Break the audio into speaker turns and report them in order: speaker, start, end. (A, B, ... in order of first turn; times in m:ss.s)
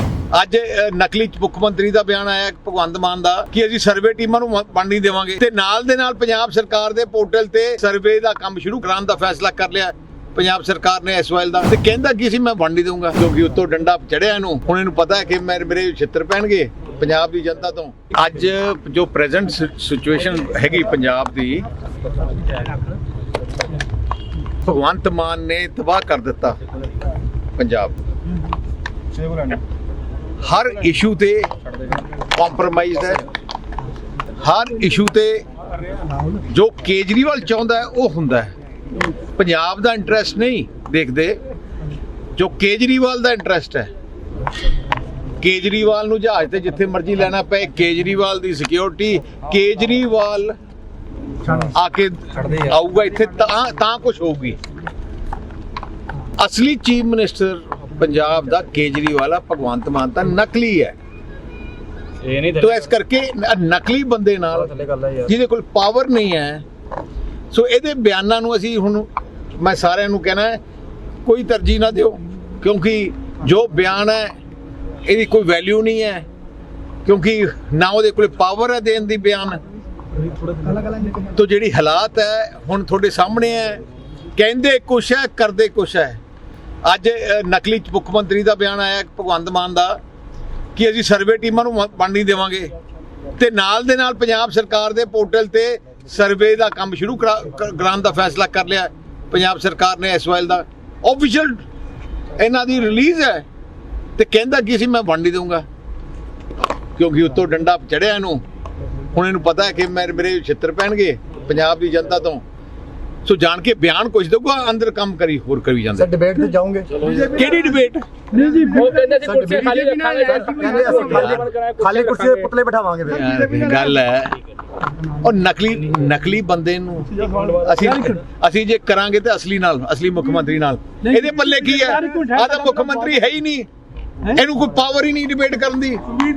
0:00.3-0:21.7 A
0:24.6-0:26.6 A
0:27.6-0:28.0 A
0:30.4-0:31.5 A
0:32.3-0:33.2 A
0:34.4-0:35.4 A
0:36.5-0:38.5 A
0:39.4-0:41.4 A
0:42.4-0:43.9 A
0:45.4-0:50.5 A
0:51.6-0:54.6 A
0:56.4-1:01.0 A
1:02.2-1:02.9 B
1:02.5-1:04.7 A
1:04.6-1:05.3 B
1:05.2-1:06.6 A
1:07.5-1:09.1 A
1:09.6-1:10.6 A
1:11.2-1:14.3 A
1:15.0-1:16.2 A
1:17.0-1:19.6 A
1:21.3-1:23.8 A
1:24.3-1:26.2 A
1:26.8-1:30.0 A
1:30.8-1:32.7 A
1:33.4-1:41.6 A
1:42.4-1:43.4 A
1:44.2-1:45.6 A
1:47.0-1:48.4 A
1:49.1-1:52.4 A
1:53.2-1:56.1 A
1:56.0-1:56.9 C
1:57.0-1:58.0 A
1:58.3-2:02.5 B
1:59.0-2:03.4 C
2:00.7-2:01.4 A
2:03.1-2:04.4 A
2:05.2-2:13.7 A
2:07.3-2:08.1 B
2:14.2-2:16.0 A